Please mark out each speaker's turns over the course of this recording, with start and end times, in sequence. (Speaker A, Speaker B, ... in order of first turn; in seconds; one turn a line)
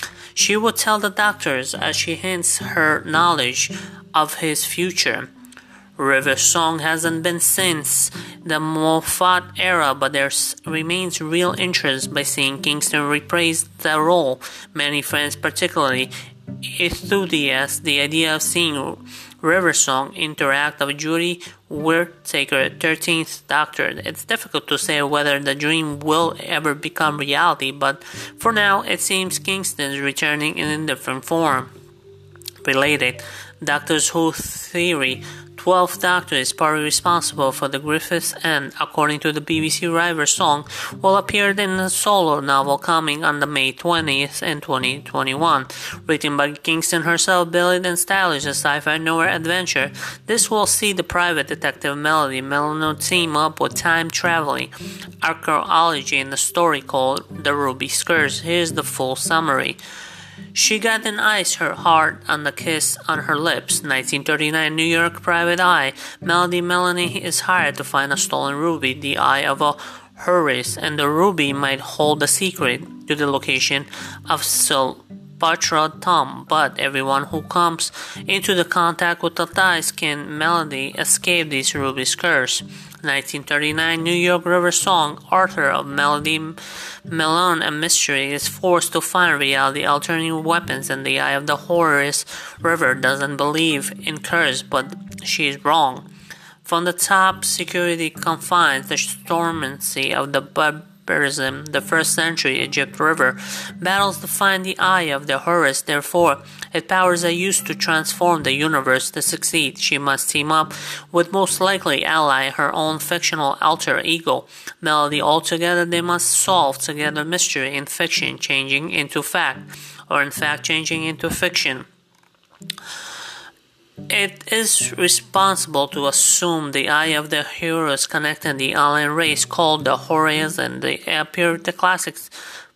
Speaker A: 0.3-5.3
Speaker A: 6.0-16.1
Speaker A: 16.7-31.7
Speaker A: 32.6-59.8
Speaker A: 60.5-96.1
Speaker A: 96.6-121.8
Speaker A: 124.1-132.3